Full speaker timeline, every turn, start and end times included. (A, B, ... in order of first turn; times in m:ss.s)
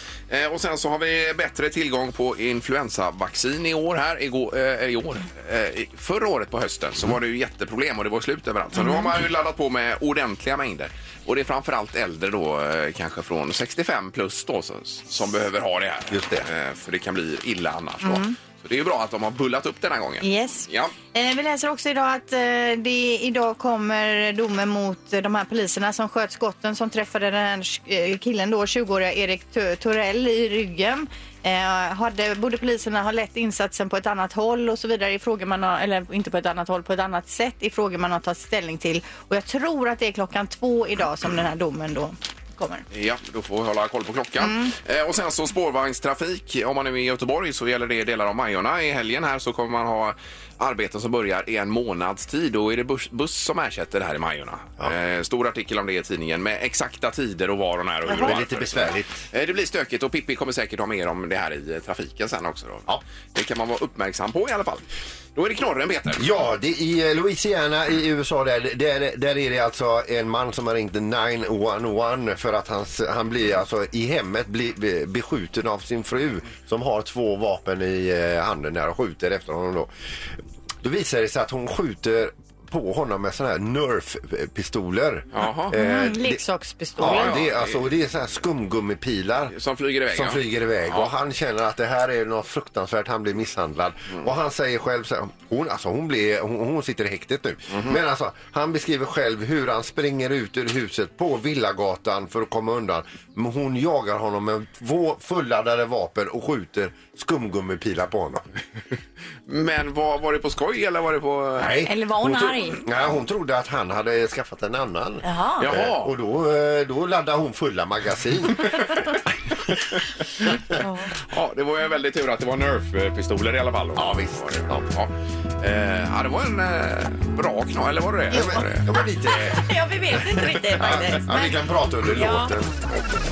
0:00.3-0:20.9 A
0:08.8-0:09.1 B
0:16.1-0:16.5 C
0:18.0-0:18.4 B
0:20.2-0:42.8 B
0:42.9-1:06.3 A
0:44.4-0:44.7 B
0:58.1-0:59.2 C
1:06.2-1:19.9 C
1:20.8-1:26.4 C
1:25.3-1:25.8 A
1:25.7-1:27.4 B
1:27.0-1:29.5 C
1:27.0-1:27.8 A
1:29.5-1:31.1 A
1:30.1-1:48.4 C
1:37.7-1:38.0 A
1:49.5-1:51.7 A
1:51.6-1:58.8 C
1:51.9-1:52.8 B
1:55.2-1:55.7 B
1:55.6-1:56.1 A
2:00.8-2:01.1 B
2:01.3-2:08.9 A
2:04.0-2:04.8 C
2:08.3-2:09.6 C
2:08.3-2:08.6 B
2:09.5-2:11.6 B
2:10.8-2:12.7 C
2:12.1-2:12.5 B